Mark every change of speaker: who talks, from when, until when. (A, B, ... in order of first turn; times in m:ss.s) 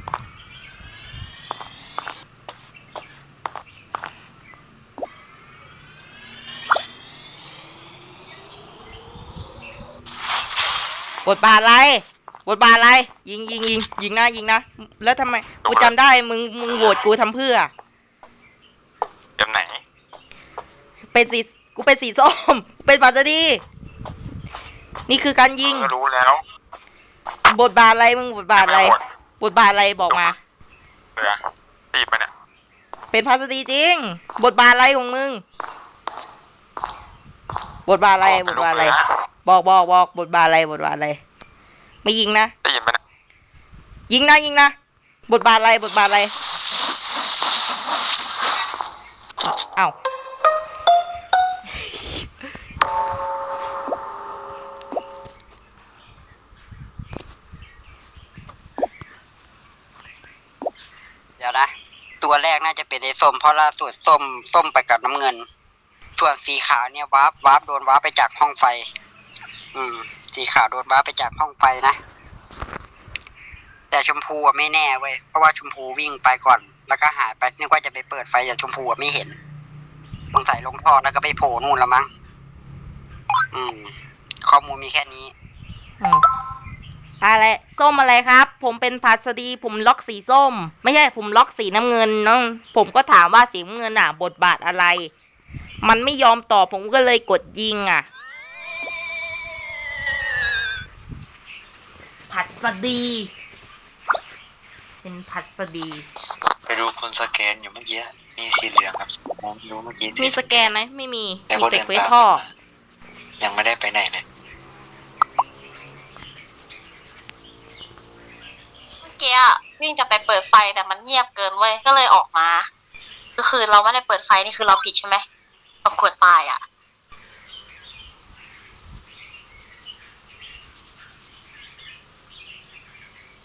0:11.2-0:17.7 A
0:15.6-0:15.9 B
0:19.4-0:19.8 B
0:21.1-0:23.6 A
0:25.1-0:25.9 A
0:25.6-0:26.4 B
0:27.5-0:30.4 A
0:28.6-0:29.0 B
0:31.9-0:32.3 B
0:33.1-0:35.4 A
0:37.8-0:41.2 A
0:38.2-0:39.0 B
0:42.0-0:42.5 A
0:42.6-0:43.0 B
0:44.1-0:44.7 A
0:45.3-0:46.3 A
0:49.4-0:49.9 A
0:51.8-0:52.2 A
1:01.4-1:05.4 C
1:06.2-1:08.8 C
1:09.7-1:12.0 C
1:13.9-1:19.4 C
1:20.3-1:22.1 C
1:23.5-1:23.9 C
1:24.4-1:25.3 C
1:27.2-1:35.1 A
1:35.8-1:38.0 A
1:42.3-1:43.3 A
1:45.0-1:46.0 A
1:46.7-1:50.3 D
1:50.2-1:52.4 A
1:51.6-1:52.1 D
1:53.4-1:54.2 D
1:59.0-2:02.6 E
2:03.4-2:05.2 E
2:05.8-2:06.6 E